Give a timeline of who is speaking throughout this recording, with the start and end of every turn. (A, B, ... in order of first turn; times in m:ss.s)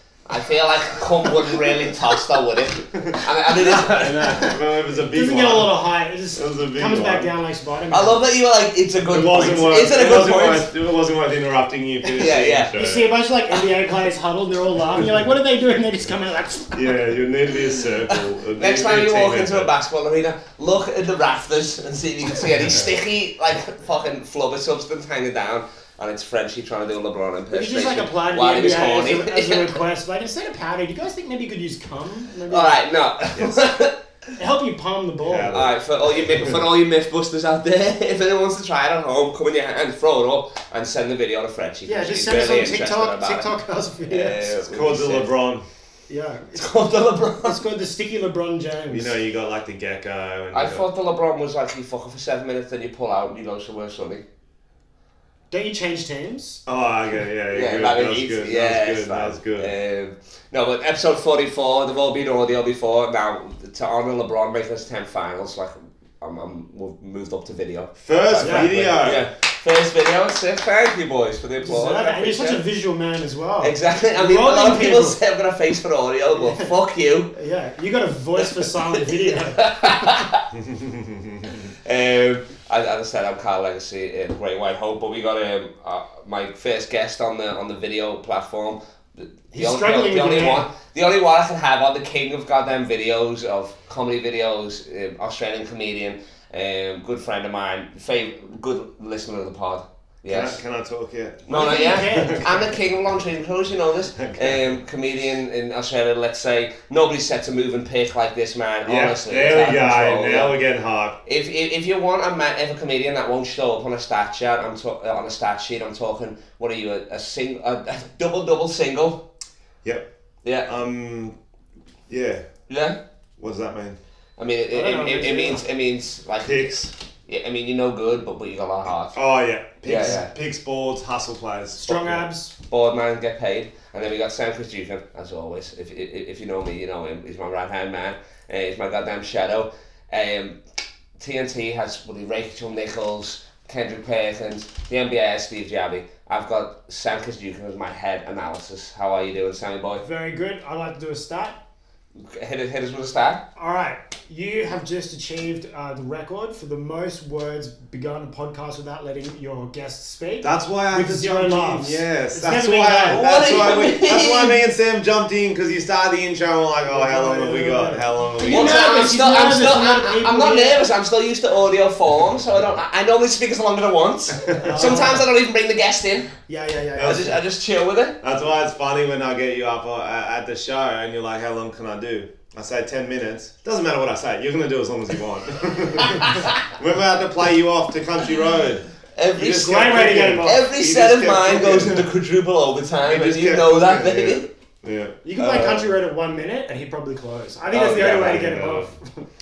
0:00.3-0:04.4 A
0:02.9-0:05.8 B
0:05.1-0:08.2 C
0:06.3-0:07.3 B
0:07.9-0:10.7 A
0:09.1-0:13.1 B
0:12.1-0:12.7 A
0:12.7-0:16.9 C
0:16.7-0:19.7 B
0:18.1-0:29.8 A
0:27.5-0:32.7 C
0:32.5-0:34.0 A
0:34.4-0:35.5 C
0:35.2-0:36.6 B
0:35.5-0:43.5 A
0:41.8-0:44.5 C
0:44.1-0:45.3 A
0:44.7-0:45.6 B
0:46.1-0:46.6 C
0:46.5-0:47.6 A
0:47.4-0:49.1 C
0:48.9-0:50.8 B
0:50.5-0:54.2 A
0:55.5-0:56.6 C
0:56.6-0:59.7 B
0:57.5-1:12.6 A
1:08.0-1:09.2 B
1:08.4-1:09.0 C
1:11.6-1:15.2 C
1:13.6-1:17.3 A
1:16.3-1:16.7 C
1:17.3-1:20.1 C
1:18.4-1:20.4 A
1:20.5-1:21.6 B
1:21.6-1:40.6 A
1:29.5-1:30.6 C
1:40.2-1:42.8 B
1:41.5-1:50.5 A
1:41.5-1:42.4 C
1:44.2-1:44.7 B
1:48.8-1:51.2 B
1:51.2-1:59.2 A
2:00.6-2:01.4 B
2:02.1-2:02.4 B
2:02.7-2:03.0 A
2:03.4-2:04.0 B
2:04.4-2:06.7 A
2:04.7-2:05.6 C
2:06.4-2:06.9 B
2:07.3-2:09.2 A
2:09.1-2:12.2 B
2:09.8-2:10.3 A
2:11.7-2:12.5 C
2:12.7-2:20.6 A
2:21.2-2:30.0 A
2:30.0-2:31.6 C
2:32.2-2:33.4 A
2:33.6-2:43.2 C
2:40.4-2:48.8 B
2:43.1-2:44.6 A
2:46.8-2:50.8 C
2:48.4-2:56.3 A
2:54.4-2:55.1 B
2:54.6-2:55.2 C
2:56.5-2:57.4 C
2:56.9-2:57.3 B
2:57.0-2:58.2 A
2:58.2-3:12.1 B
3:09.2-3:14.5 A
3:09.4-3:10.6 C
3:13.0-3:15.2 B
3:15.2-3:19.2 C
3:15.4-3:15.9 A
3:17.7-3:18.9 B